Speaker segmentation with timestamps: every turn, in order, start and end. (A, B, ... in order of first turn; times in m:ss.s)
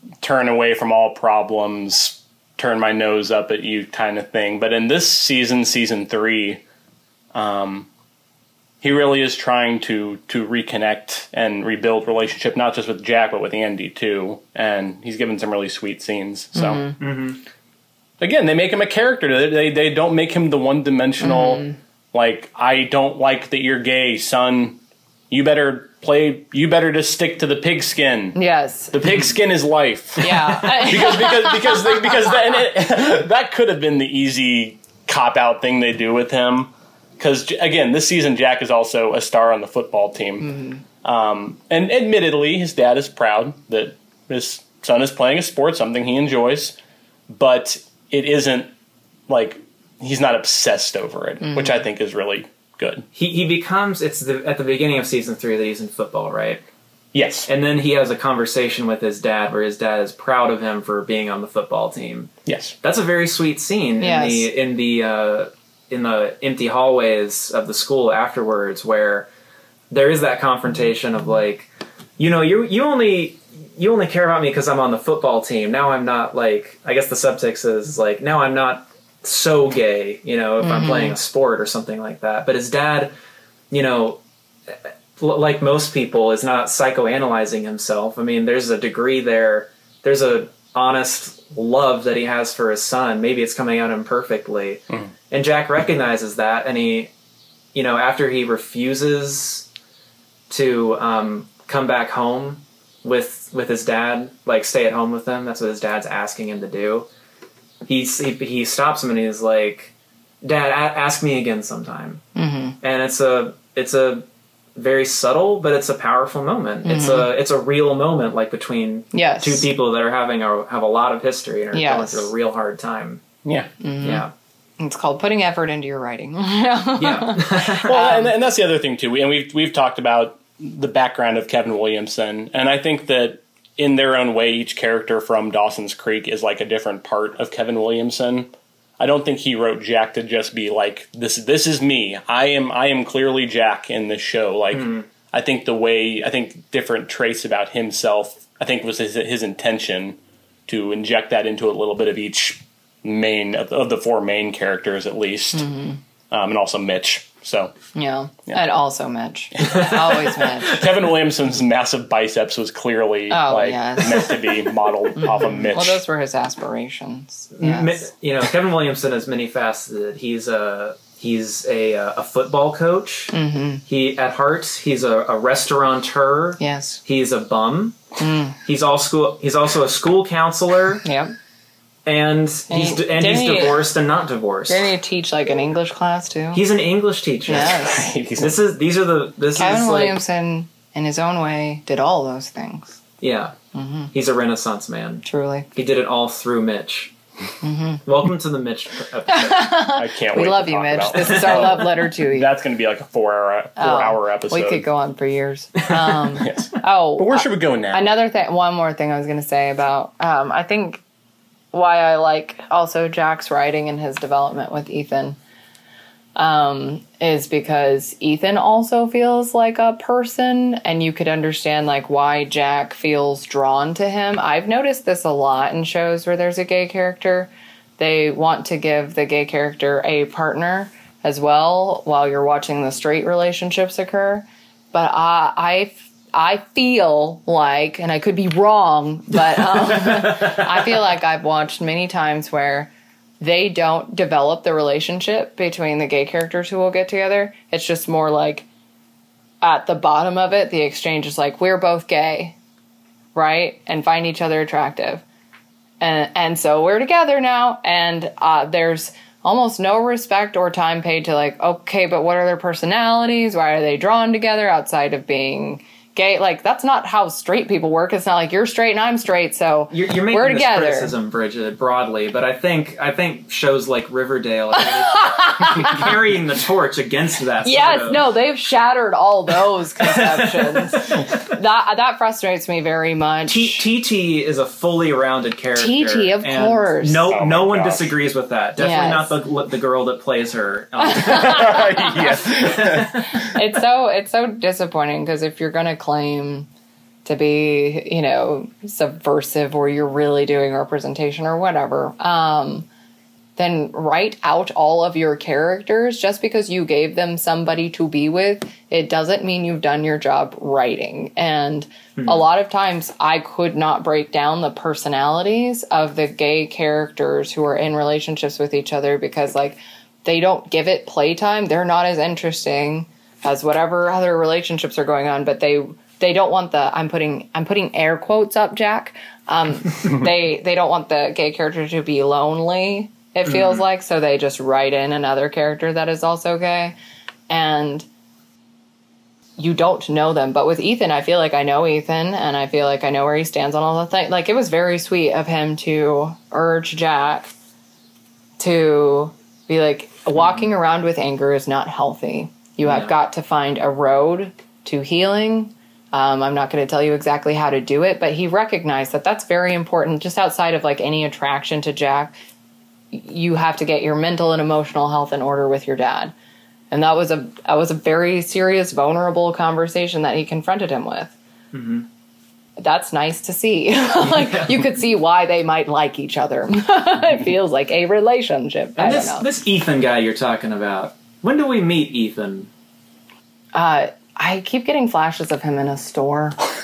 0:00.2-0:06.6 A
0:07.3-0:07.9 A
0:08.8-0:16.8 A
0:16.5-0:17.0 B
0:17.0-0:17.4 C
0:18.2-0:24.8 A
0:21.2-0:21.7 B
0:25.3-0:28.4 A
0:28.3-0:29.0 B
0:28.9-0:46.8 A
0:30.2-0:32.4 B
0:40.4-0:40.8 B
0:47.3-0:48.7 A
0:49.3-0:53.0 A
0:51.4-0:51.7 B
0:53.1-0:56.6 C
0:57.1-0:57.5 A
0:57.4-1:02.3 C
1:02.4-1:02.7 A
1:02.8-1:09.3 C
1:04.0-1:04.5 B
1:09.9-1:23.1 C
1:20.6-1:21.2 B
1:23.7-1:24.2 C
1:25.2-1:37.1 C
1:37.7-1:39.7 C
1:40.5-1:47.1 C
1:47.8-1:52.2 C
1:52.3-1:52.8 B
1:52.8-2:03.2 C
1:56.8-1:57.3 B
1:59.1-1:59.7 B
2:01.7-2:02.3 B
2:03.4-2:03.7 A
2:03.8-2:04.2 B
2:04.0-2:04.3 C
2:04.8-2:08.3 B
2:07.0-2:08.0 C
2:07.8-2:35.7 A
2:24.7-2:25.0 C
2:35.5-2:36.0 B
2:36.3-2:37.7 A
2:37.9-2:40.8 B
2:39.6-2:40.8 C
2:40.7-2:46.0 A
2:43.3-2:44.3 B
2:45.2-2:48.0 B
2:47.5-2:53.3 C
2:53.3-2:53.8 B
2:53.9-2:58.0 C
2:56.6-2:57.0 B
2:58.2-2:58.6 B
2:58.6-3:01.0 C
3:01.0-3:01.3 B
3:02.0-3:04.8 C
3:02.7-3:03.9 B
3:04.7-3:06.6 B
3:06.5-3:07.8 C
3:07.5-3:08.1 B
3:07.5-3:08.6 A
3:08.4-3:10.2 C
3:09.6-3:13.0 B
3:13.2-3:13.5 C
3:13.7-3:14.1 B
3:14.1-3:15.2 C
3:15.2-3:15.7 B
3:15.7-3:17.1 C
3:17.6-3:18.0 B
3:18.0-3:19.8 C
3:19.3-3:22.5 B
3:19.9-3:24.8 A
3:23.8-3:31.0 B
3:26.4-3:28.1 A
3:31.7-3:35.4 B
3:36.4-4:08.6 B
3:59.8-4:00.6 C
4:09.6-4:12.6 B
4:13.3-4:15.2 B
4:16.0-4:31.1 B
4:29.9-4:38.2 C
4:35.0-4:36.1 B
4:37.6-4:43.8 B
4:40.0-4:41.3 C
4:43.5-4:51.9 C
4:45.8-4:47.3 B
4:47.3-4:48.1 A
4:48.8-4:49.3 B
4:51.1-4:56.7 B
4:51.2-4:53.4 A
4:52.5-4:53.3 C
4:57.2-5:02.8 B
5:03.6-5:36.9 B
5:12.2-5:12.4 C
5:33.5-5:33.8 C
5:37.5-5:38.0 B
5:39.6-5:47.5 B
5:48.6-6:02.3 B
5:52.8-5:53.1 C
6:03.1-6:06.3 B
6:06.9-6:11.3 B
6:11.7-6:12.0 C
6:12.8-6:19.4 B
6:14.2-6:14.8 C
6:19.0-6:22.7 C
6:23.7-6:26.6 B